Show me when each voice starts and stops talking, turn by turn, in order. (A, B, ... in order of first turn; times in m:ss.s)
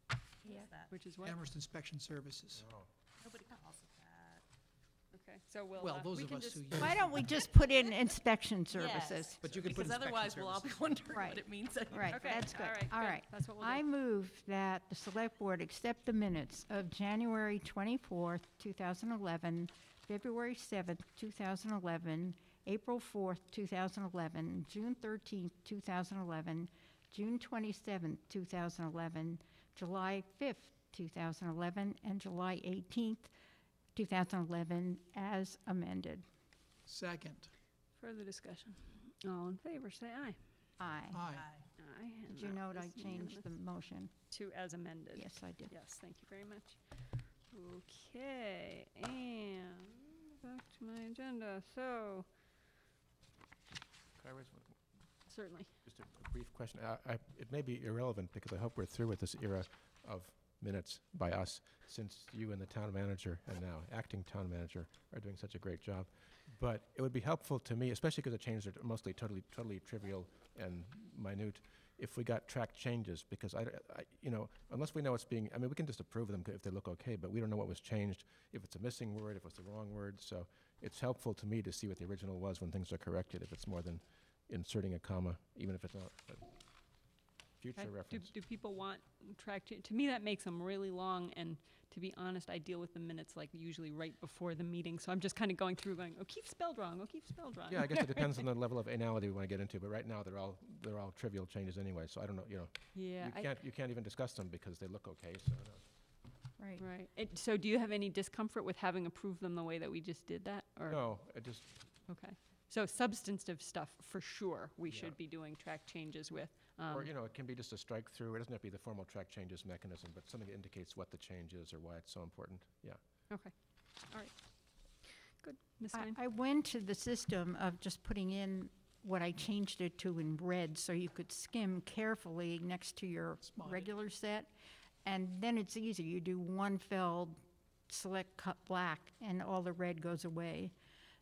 0:00.4-0:00.9 A
0:00.9-0:01.4 B
0:01.2-0:02.7 C
0:02.6-0:02.9 D
0:03.2-0:04.4 A
0:05.1-0:07.0 B
0:05.8-0:07.1 C
0:06.8-0:09.6 E
0:08.7-0:12.5 A
0:09.4-0:11.0 C
0:11.1-0:33.3 E
0:12.1-0:13.8 B
0:33.9-0:36.2 E
0:36.8-0:37.5 C
0:38.0-0:40.4 B
0:40.8-0:41.3 E
0:41.1-0:41.5 C
0:41.4-0:41.6 A
0:41.8-0:43.5 B
0:42.3-0:44.1 E
0:44.3-0:46.8 B
0:45.1-0:45.7 E
0:47.5-0:52.3 B
0:54.2-0:54.8 D
0:55.3-0:55.7 B
0:55.8-1:26.5 D
1:27.6-1:28.3 D
1:27.8-1:38.4 B
1:37.7-1:45.8 D
1:42.9-1:43.6 B
1:46.6-1:46.8 E
1:46.8-1:51.0 B
1:50.9-1:51.6 D
1:52.1-1:57.1 B
1:54.9-1:55.2 D
1:56.9-2:03.0 D
2:05.4-2:06.2 B
2:05.9-2:14.5 E
2:13.4-2:13.9 C
2:15.0-2:20.7 E